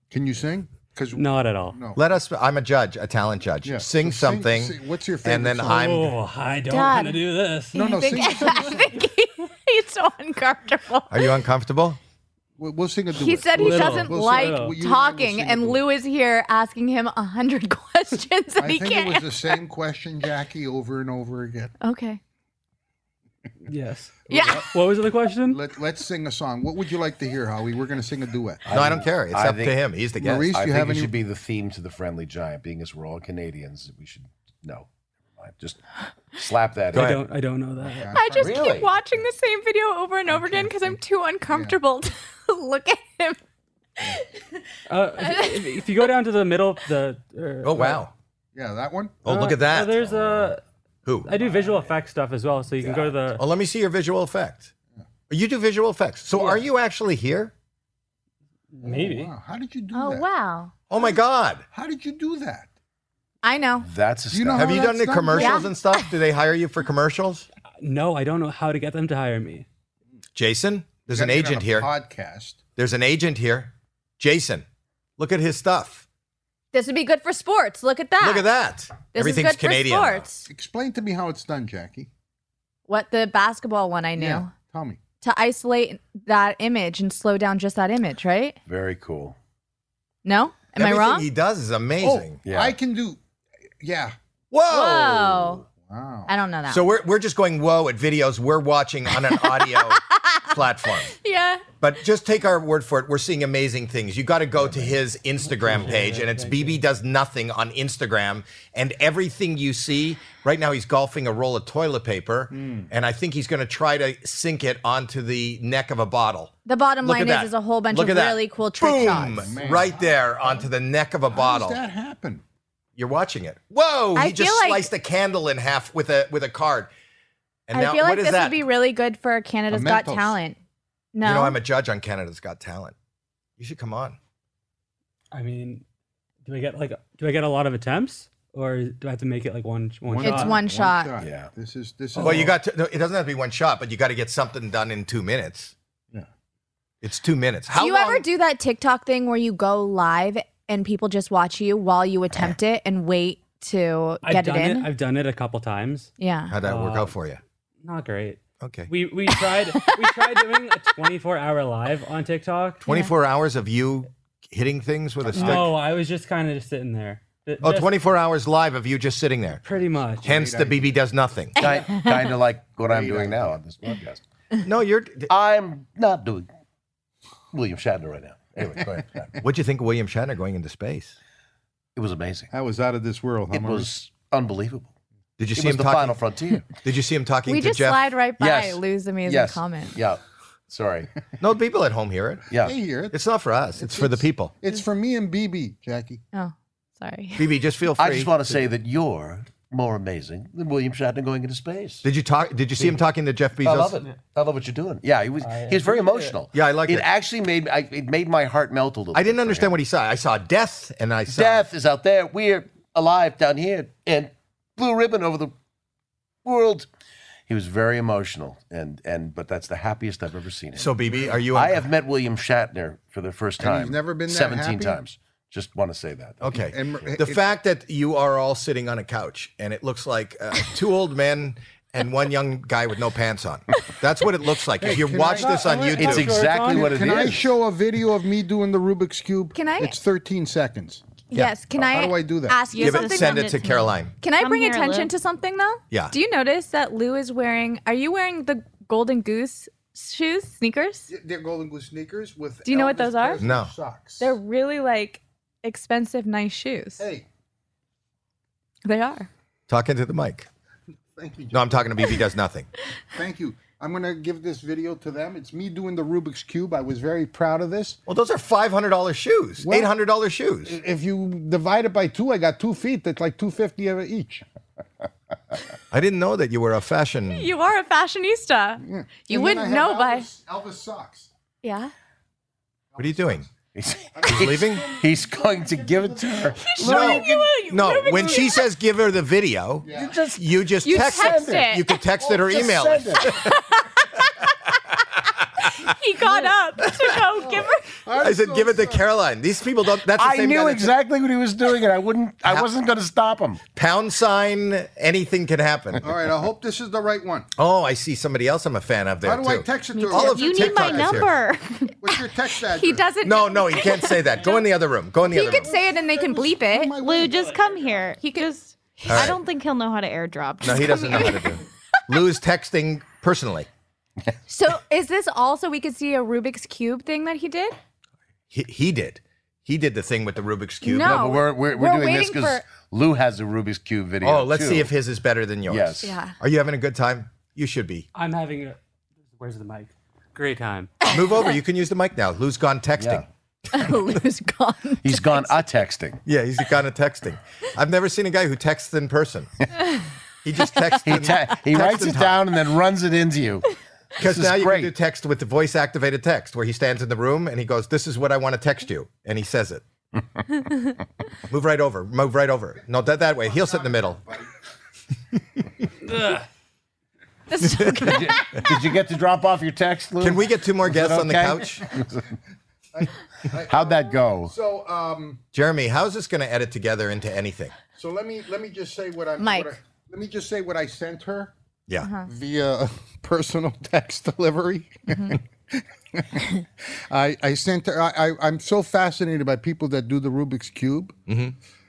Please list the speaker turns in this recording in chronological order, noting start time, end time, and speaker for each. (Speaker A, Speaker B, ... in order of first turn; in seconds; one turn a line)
Speaker A: 0.1-2.0
Speaker B: 1.1-1.8
Speaker C: 1.9-6.1
Speaker A: 3.6-6.0
Speaker B: 5.7-8.0
Speaker D: 6.7-11.4
Speaker A: 7.8-9.0
Speaker C: 11.1-12.0
Speaker A: 12.6-15.8
Speaker D: 13.1-19.5
Speaker B: 13.5-14.8
Speaker A: 18.6-21.7
Speaker D: 21.8-22.2
Speaker B: 23.7-25.6
Speaker A: 24.3-24.6
Speaker D: 24.3-24.7
Speaker A: 25.4-28.6
Speaker E: 28.6-29.8
Speaker C: 28.7-30.5
Speaker A: 30.2-31.1
Speaker E: 30.4-37.2
Speaker C: 36.9-37.2
Speaker B: 36.9-38.2
Speaker A: 37.8-38.8
Speaker D: 38.1-43.4
Speaker E: 38.3-38.9
Speaker A: 40.3-41.8
Speaker D: 44.0-44.2
Speaker B: 44.9-48.0
Speaker D: 45.2-46.1
Speaker C: 47.6-48.1
Speaker A: 48.5-49.2
Speaker C: 49.2-50.3
Speaker B: 49.2-50.6
Speaker E: 50.1-50.5
Speaker B: 51.2-53.4
Speaker E: 52.8-53.1
Speaker C: 53.3-54.7
Speaker C: 55.3-57.5
Speaker B: 56.3-56.6
Speaker B: 58.7-59.3
Speaker A: 58.8-60.3
Speaker D: 59.9-60.7
Speaker C: 60.9-61.6
Speaker A: 61.7-62.7
Speaker D: 63.4-63.9
Speaker E: 63.8-64.9
Speaker A: 64.3-65.7
Speaker C: 64.5-67.5
Speaker D: 65.3-66.0
Speaker B: 67.8-69.7
Speaker C: 70.3-71.9
Speaker A: 71.1-72.6
Speaker C: 72.8-74.6
Speaker C: 75.2-76.0
Speaker D: 76.7-78.5
Speaker C: 78.2-80.2
Speaker D: 79.1-80.5
Speaker A: 80.5-82.1
Speaker D: 82.9-84.5
Speaker A: 84.2-85.0
Speaker D: 85.2-88.6
Speaker E: 88.7-89.4
Speaker D: 90.2-91.3
Speaker C: 90.8-92.4
Speaker A: 92.0-93.2
Speaker E: 92.4-92.8
Speaker A: 93.8-94.1
Speaker C: 94.5-95.6
Speaker D: 94.7-95.6
Speaker A: 95.8-96.3
Speaker D: 96.3-96.9
Speaker C: 96.7-101.2
Speaker D: 99.4-100.5
Speaker D: 101.1-101.7
Speaker C: 101.8-116.5
Speaker B: 105.4-106.8
Speaker A: 112.5-112.9
Speaker D: 116.6-119.5
Speaker C: 117.0-121.8
Speaker A: 119.0-120.7
Speaker A: 121.3-122.4
Speaker C: 123.0-126.9
Speaker D: 124.1-124.9
Speaker C: 127.7-128.6
Speaker D: 127.7-130.6
Speaker A: 129.7-130.4
Speaker D: 131.1-131.6
Speaker C: 131.2-132.9
Speaker C: 133.6-134.2
Speaker B: 135.3-135.8
Speaker B: 136.4-140.6
Speaker A: 140.1-142.6
Speaker D: 140.2-141.2
Speaker E: 141.2-141.5
Speaker C: 142.2-145.7
Speaker B: 142.2-142.4
Speaker C: 147.0-148.2
Speaker D: 147.7-154.9
Speaker B: 154.2-157.1
Speaker D: 156.2-156.5
Speaker C: 156.5-157.4
Speaker B: 157.8-162.8
Speaker C: 158.6-158.9
Speaker D: 159.7-160.1
Speaker C: 162.8-165.7
Speaker D: 162.8-163.1
Speaker B: 165.3-167.9
Speaker E: 165.3-165.6
Speaker A: 165.3-165.6
Speaker C: 167.6-169.6
Speaker B: 169.6-170.3
Speaker A: 170.1-171.0
Speaker C: 170.2-171.6
Speaker E: 171.6-174.2
Speaker D: 171.6-172.2
Speaker A: 172.8-173.6
Speaker C: 174.6-175.3
Speaker E: 175.3-176.5
Speaker E: 177.5-179.3
Speaker C: 179.4-181.2
Speaker E: 181.9-182.5
Speaker A: 182.5-183.9
Speaker E: 183.5-184.9
Speaker C: 185.4-188.1
Speaker E: 185.5-186.7
Speaker D: 187.4-190.0
Speaker E: 188.4-191.1
Speaker C: 191.4-192.5
Speaker E: 192.5-192.8
Speaker A: 192.6-193.2
Speaker C: 193.1-194.5
Speaker A: 193.8-196.2
Speaker D: 196.3-197.4
Speaker C: 197.3-198.4
Speaker E: 198.0-202.1
Speaker C: 202.0-204.0
Speaker E: 202.8-203.1
Speaker E: 203.6-209.8
Speaker B: 205.4-206.4
Speaker C: 206.5-207.1
Speaker C: 209.1-211.6
Speaker E: 211.3-215.5
Speaker E: 216.4-216.9
Speaker E: 217.5-226.7
Speaker C: 220.8-221.9
Speaker A: 223.6-225.0
Speaker C: 226.4-236.4
Speaker A: 226.6-227.4
Speaker A: 234.8-241.0
Speaker B: 235.3-237.2
Speaker E: 235.9-237.5
Speaker D: 239.5-240.0
Speaker D: 241.3-243.7
Speaker A: 241.8-242.6
Speaker F: 242.7-245.1
Speaker C: 242.8-244.1
Speaker D: 244.2-251.1
Speaker A: 251.1-254.3
Speaker D: 252.6-253.4
Speaker C: 253.4-253.7
Speaker D: 254.2-257.0
Speaker A: 257.0-257.2
Speaker D: 258.8-259.3
Speaker C: 259.7-260.5
Speaker A: 261.1-261.8
Speaker C: 261.5-262.7
Speaker A: 263.1-268.0
Speaker C: 268.1-270.8
Speaker A: 269.6-269.9
Speaker A: 270.6-274.4
Speaker C: 275.9-277.5
Speaker D: 277.3-280.3
Speaker A: 278.8-281.3
Speaker D: 281.6-281.9
Speaker A: 282.9-283.4
Speaker C: 283.0-283.4
Speaker E: 283.7-287.5
Speaker A: 284.1-287.0
Speaker C: 284.3-284.9
Speaker D: 286.6-288.7
Speaker C: 286.8-293.5
Speaker A: 289.8-290.2
Speaker E: 289.9-290.4
Speaker D: 290.8-292.0
Speaker E: 291.1-291.6
Speaker E: 292.2-293.3
Speaker A: 292.3-293.0
Speaker D: 293.3-294.3
Speaker D: 295.8-297.9
Speaker A: 297.4-299.0
Speaker C: 298.2-300.9
Speaker E: 300.1-303.6
Speaker C: 303.7-306.0
Speaker A: 306.0-307.5
Speaker C: 307.6-311.3
Speaker A: 309.2-311.4
Speaker F: 309.9-311.9
Speaker A: 312.0-313.1
Speaker D: 312.6-314.7
Speaker C: 313.2-315.7
Speaker D: 315.2-317.0
Speaker A: 315.6-317.9
Speaker F: 317.0-321.4
Speaker D: 318.2-318.5
Speaker C: 319.1-319.4
Speaker C: 320.6-323.7
Speaker D: 320.7-321.6
Speaker D: 324.5-327.8
Speaker C: 328.5-331.2
Speaker D: 330.8-332.6
Speaker E: 330.9-334.9
Speaker C: 334.2-338.1
Speaker E: 335.7-336.1
Speaker D: 336.0-336.4
Speaker B: 338.1-338.8
Speaker B: 339.3-340.9
Speaker C: 341.1-343.2
Speaker E: 343.0-343.2
Speaker D: 343.7-345.6
Speaker E: 345.0-346.2
Speaker C: 346.2-349.5
Speaker C: 350.4-352.5
Speaker E: 351.0-354.9
Speaker C: 354.2-359.8
Speaker C: 361.5-364.2
Speaker A: 363.4-364.5
Speaker B: 366.0-366.4
Speaker D: 367.5-368.7
Speaker C: 367.7-368.1
Speaker E: 367.9-372.3
Speaker C: 370.2-371.9
Speaker A: 372.9-375.4
Speaker E: 373.6-374.5
Speaker C: 375.5-377.7
Speaker A: 377.9-381.5
Speaker D: 379.4-379.7
Speaker D: 382.0-382.3
Speaker A: 382.2-391.1
Speaker D: 385.1-385.4
Speaker C: 391.3-391.5